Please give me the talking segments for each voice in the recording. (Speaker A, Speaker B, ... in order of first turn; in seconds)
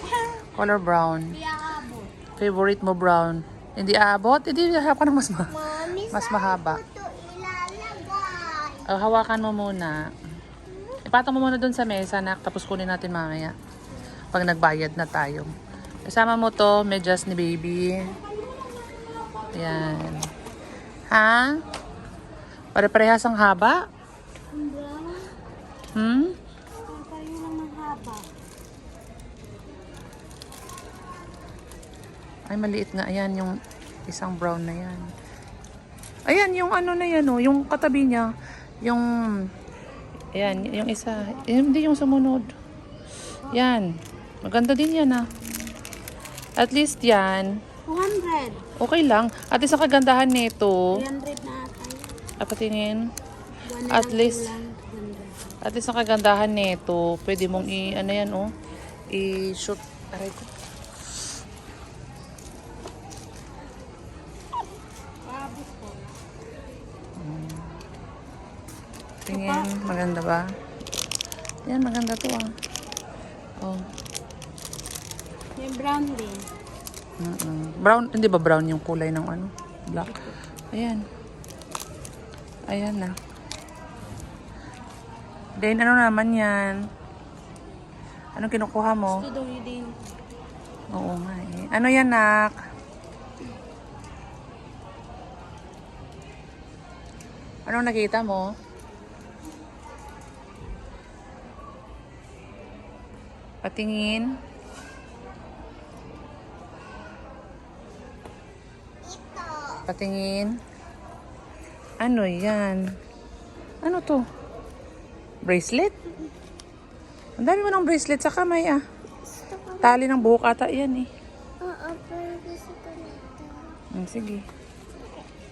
Speaker A: 0.5-1.3, 2.4-6.8, 8.9-10.0, 11.0-13.5, 14.3-15.5, 16.1-18.1, 19.5-20.3, 21.1-21.6, 22.7-23.8, 25.9-26.4, 32.5-35.1, 36.3-38.3, 40.3-42.5, 43.5-45.2, 46.6-47.5, 48.8-50.8, 52.4-53.0, 53.9-54.5, 55.6-58.5, 59.1-60.5, 67.2-67.7, 69.3-70.5, 71.7-72.5, 77.2-81.0, 82.7-83.1, 85.6-86.8, 88.3-89.2, 90.9-92.5, 97.7-98.5, 103.6-104.4, 109.9-110.5, 112.0-112.8, 113.8-114.2, 115.4-115.9, 117.4-118.8, 119.8-121.1, 124.0-124.4
Speaker B: 1.3-2.1, 18.4-19.8, 24.5-25.3, 26.9-28.3, 40.6-41.5, 47.9-48.6, 50.9-52.1, 53.7-55.5, 65.2-66.1, 69.3-69.7, 75.6-76.5, 89.2-90.0
Speaker C: 6.8-8.6, 109.2-109.7, 121.7-123.4